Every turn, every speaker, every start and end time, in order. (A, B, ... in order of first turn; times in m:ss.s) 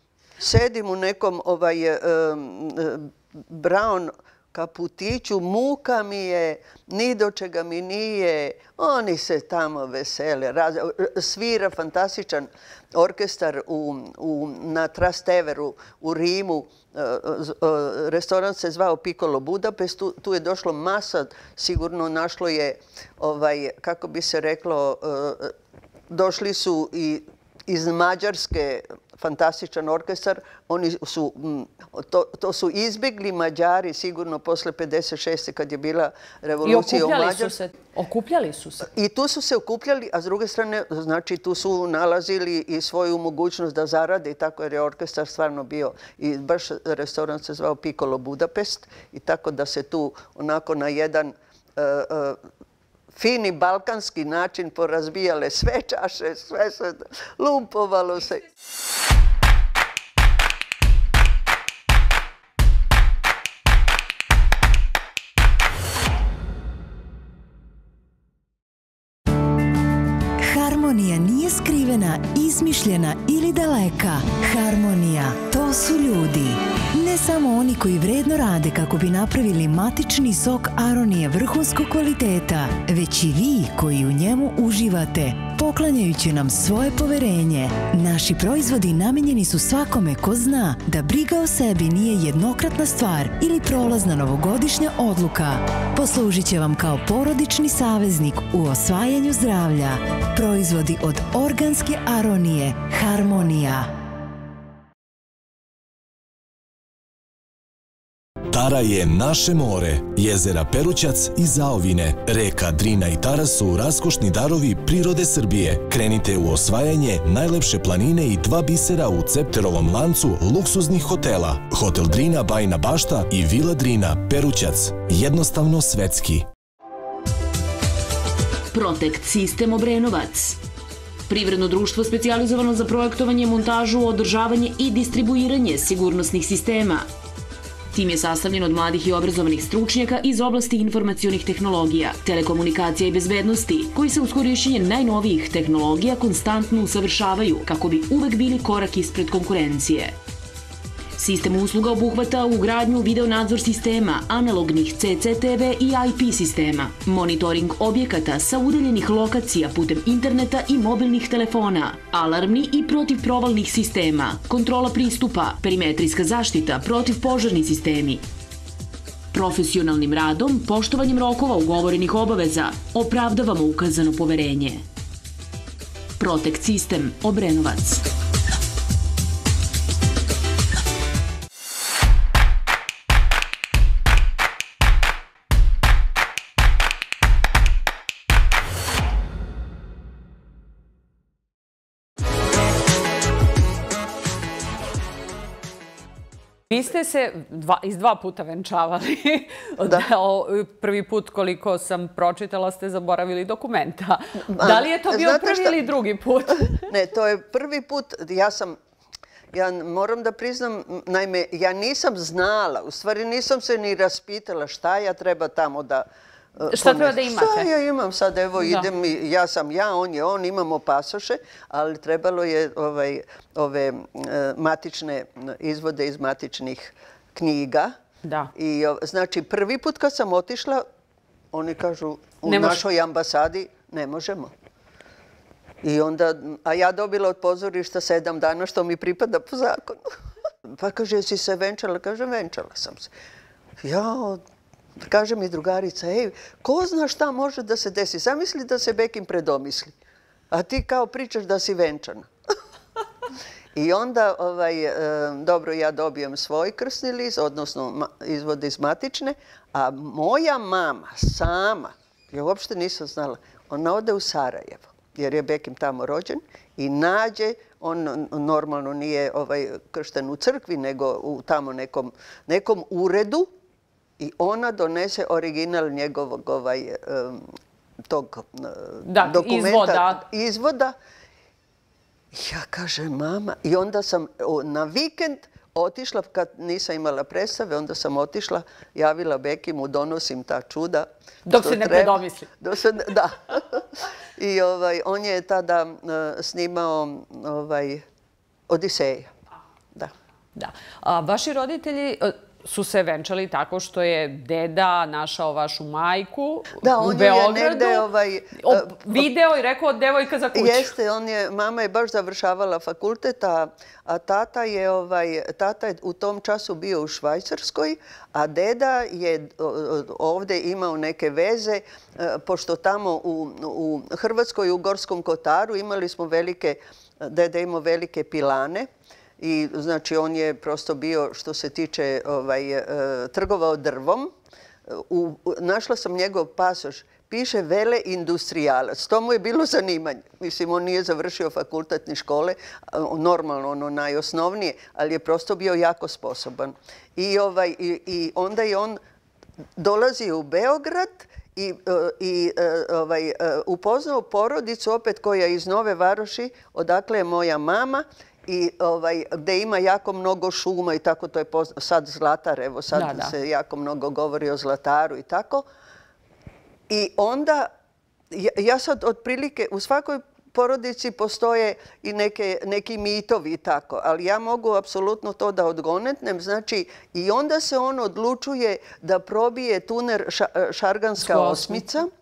0:00.4-0:25.5 A
0:26.1-0:37.6 A
0:36.6-0:38.9 B
0:38.8-0:52.4 A
0:53.1-0:58.5 A
1:10.4-1:43.9 C
1:48.5-2:06.4 D
2:08.7-2:10.6 E
2:11.3-2:17.1 E
2:17.9-2:30.1 E
2:31.2-2:48.2 E
2:49.3-2:54.8 E
2:56.2-2:58.0 E
3:16.7-3:26.9 B
3:24.5-3:25.7 A
3:26.9-3:28.8 A
3:29.5-3:47.9 A
3:36.7-3:37.7 B
3:38.6-3:38.9 B
3:48.2-3:48.5 B
3:48.5-3:50.8 A
3:51.5-3:54.5 A
3:52.4-3:52.8 B
3:55.8-4:03.1 A
4:03.8-4:04.4 A
4:05.0-4:09.9 A
4:10.5-4:12.3 A
4:13.7-4:33.5 A
4:34.2-4:37.5 A
4:38.0-4:40.9 A
4:39.0-4:40.2 B
4:42.3-4:58.0 A
4:51.4-4:52.5 B
4:58.7-4:59.3 A
5:00.6-5:08.1 B
5:06.8-5:09.3 A
5:08.6-5:10.9 B
5:10.5-5:34.3 A
5:34.9-5:49.0 A
5:49.8-6:05.6 A
6:02.9-6:03.3 B
6:06.9-6:07.7 A
6:08.3-6:22.1 A
6:21.2-6:21.8 B